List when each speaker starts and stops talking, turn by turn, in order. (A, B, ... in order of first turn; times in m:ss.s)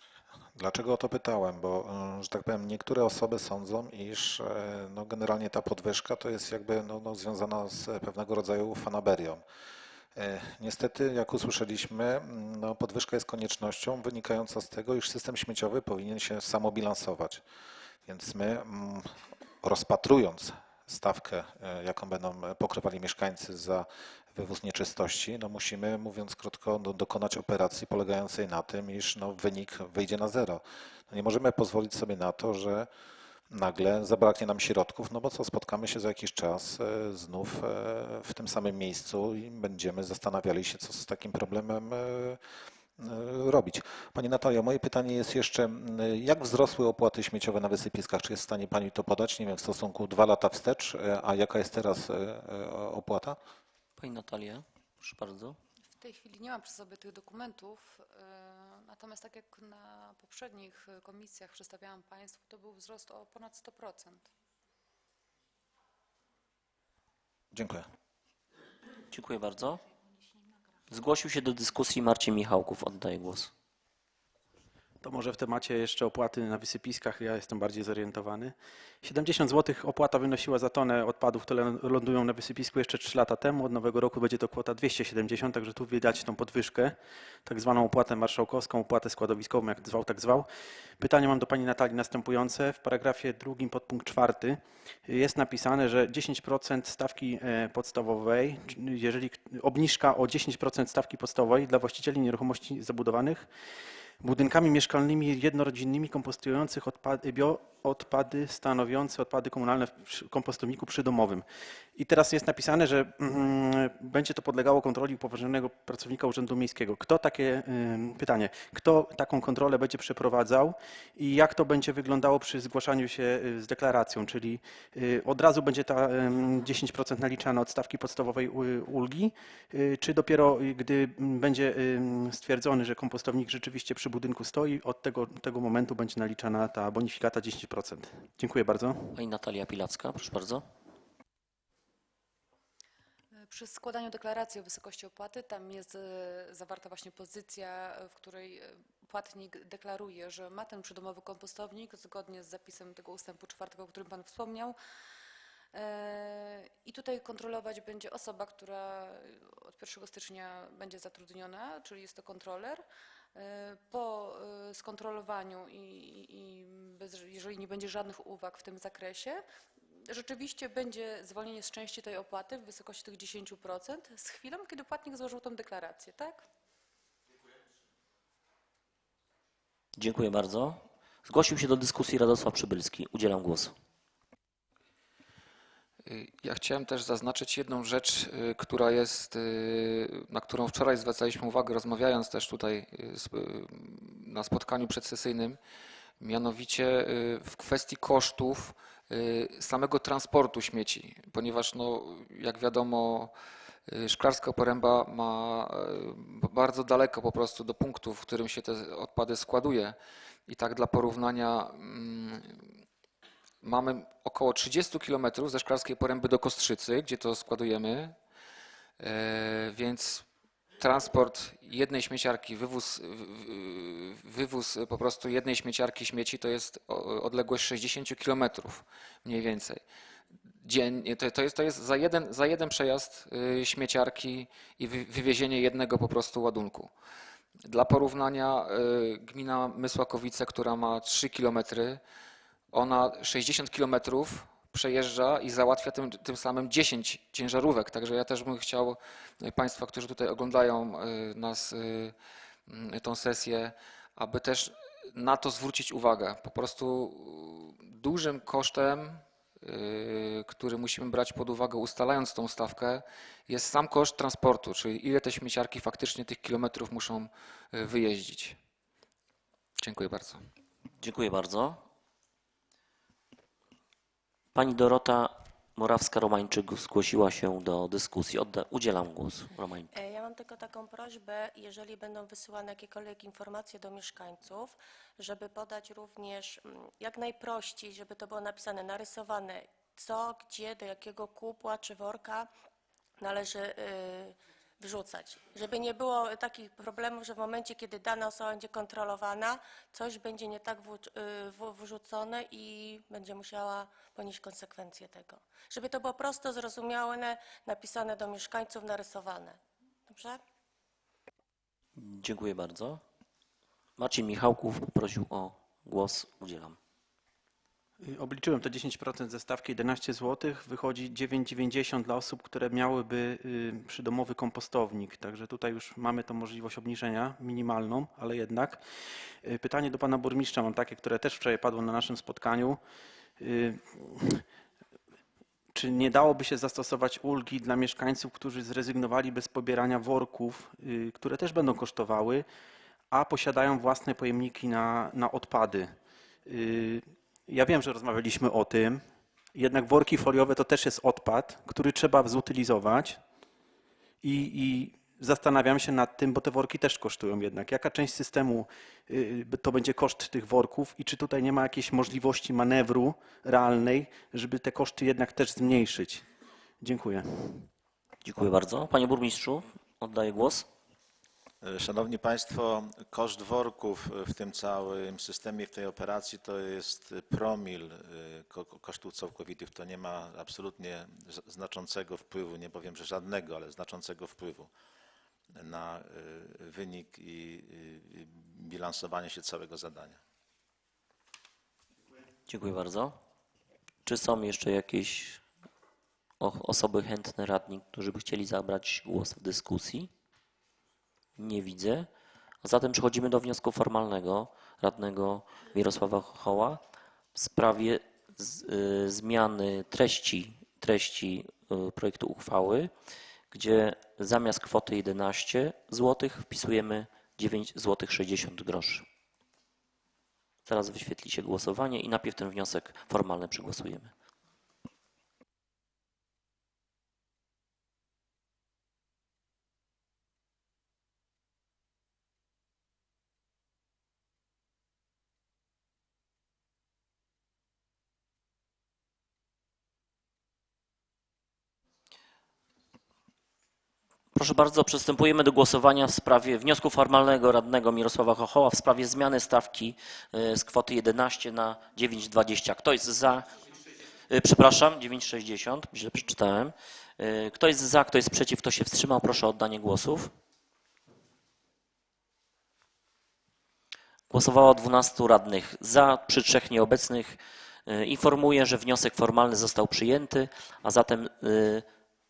0:00.6-0:09.4 A
0:10.2-0:17.4 A
0:18.1-0:32.9 A
0:33.5-0:42.4 A
0:43.0-0:53.4 A
0:54.0-0:55.6 B
0:55.9-1:04.3 C
1:07.5-1:07.9 A
1:09.1-1:09.8 B
1:10.9-1:13.5 B
1:15.0-1:30.5 D
1:31.0-1:43.5 D
1:44.2-2:19.2 D
2:19.1-2:20.6 B
2:23.3-2:34.8 C
2:35.7-2:42.8 C
2:43.4-2:56.4 C
3:00.0-3:03.7 B
3:06.0-3:15.6 E
3:16.2-3:23.3 E
3:23.9-3:30.0 E
3:30.5-3:32.8 E
3:33.6-3:38.2 E
3:39.0-3:40.3 E
3:40.8-3:49.8 E
3:50.6-3:56.9 E
3:57.6-4:02.0 E
4:02.7-4:12.2 E
4:12.7-4:28.6 E
4:29.8-4:30.4 E
4:31.0-4:31.8 B
4:34.6-4:39.9 B
4:39.9-4:52.5 F
4:53.2-5:10.4 F
5:12.0-5:13.0 B
5:14.0-5:16.8 B
5:18.0-5:32.8 D
5:33.4-5:34.4 D
5:35.7-5:42.5 D
5:43.1-5:53.2 D
5:54.2-6:06.3 D
6:06.8-6:07.7 D
6:08.2-6:10.7 B
6:11.6-6:24.7 G
6:25.6-6:30.2 G
6:32.5-6:33.2 B
6:34.0-6:35.4 B
6:36.4-6:40.1 B
6:41.4-6:42.1 B
6:42.6-6:46.8 B
6:47.4-6:52.9 B
6:53.5-6:59.1 B
7:00.7-7:04.1 B
7:24.3-7:33.6 B
7:34.3-7:40.3 B
7:44.3-7:51.9 B